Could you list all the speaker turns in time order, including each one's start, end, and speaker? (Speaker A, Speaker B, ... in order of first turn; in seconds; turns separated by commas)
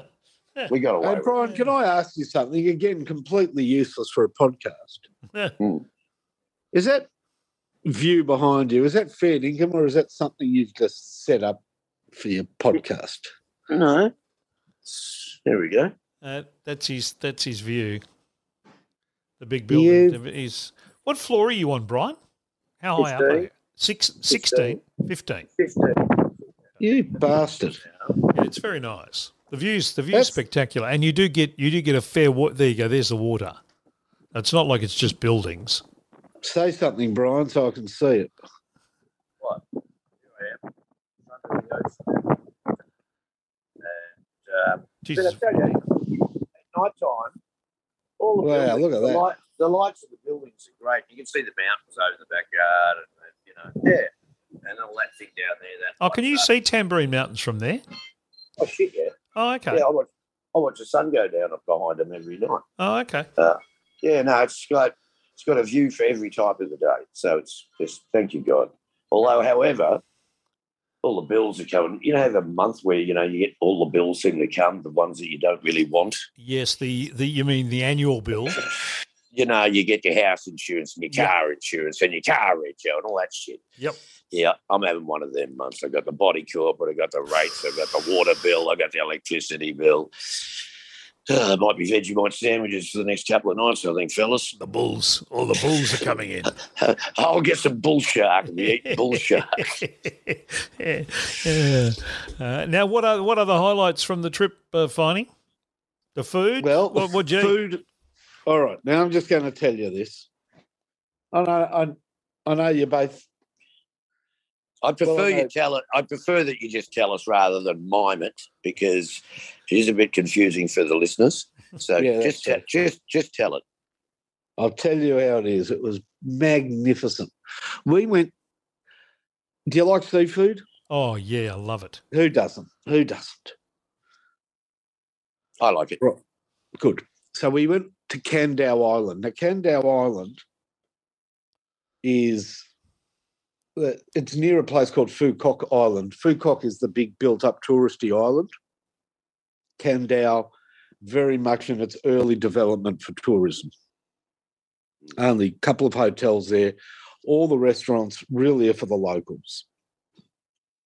Speaker A: 0.7-1.3, Speaker B: 1.0-5.0, Speaker A: 5.6-5.8, Speaker B: 6.7-7.1, Speaker B: 7.8-11.6, Speaker B: 12.1-13.3, Speaker A: 13.7-14.1, Speaker A: 14.8-15.9, Speaker C: 16.2-18.0, Speaker C: 19.4-22.2, Speaker B: 19.7-20.2, Speaker C: 22.8-25.5, Speaker A: 23.0-23.5, Speaker A: 24.3-24.8, Speaker A: 25.6-26.5, Speaker B: 26.8-27.8, Speaker C: 28.3-33.6, Speaker C: 34.3-35.8, Speaker B: 36.4-38.4, Speaker A: 40.3-40.6, Speaker A: 41.3-42.5, Speaker A: 43.8-47.4, Speaker C: 45.0-45.8, Speaker A: 48.2-56.5, Speaker B: 48.4-49.2, Speaker C: 56.0-57.8, Speaker A: 58.6-59.2, Speaker C: 59.4-59.8, Speaker A: 59.7-62.6, Speaker C: 62.8-63.3, Speaker A: 63.4-70.0, Speaker A: 71.0-76.2, Speaker C: 76.4-78.6, Speaker A: 79.3-83.6, Speaker A: 84.3-90.6, Speaker A: 91.3-94.5, Speaker C: 94.6-96.5, Speaker A: 96.8-99.8, Speaker C: 98.6-105.3, Speaker C: 106.2-107.6, Speaker B: 106.6-107.8, Speaker B: 108.5-110.3, Speaker B: 111.3-113.3, Speaker A: 114.8-123.6, Speaker B: 115.0-115.5, Speaker B: 122.0-122.6, Speaker B: 124.6-127.3, Speaker B: 127.8-128.3, Speaker B: 129.7-130.6, Speaker C: 130.9-132.0, Speaker B: 132.1-133.6, Speaker A: 135.6-136.0, Speaker B: 136.8-140.4, Speaker B: 142.0-142.7, Speaker B: 143.8-148.5, Speaker B: 149.8-153.7, Speaker B: 155.2-159.7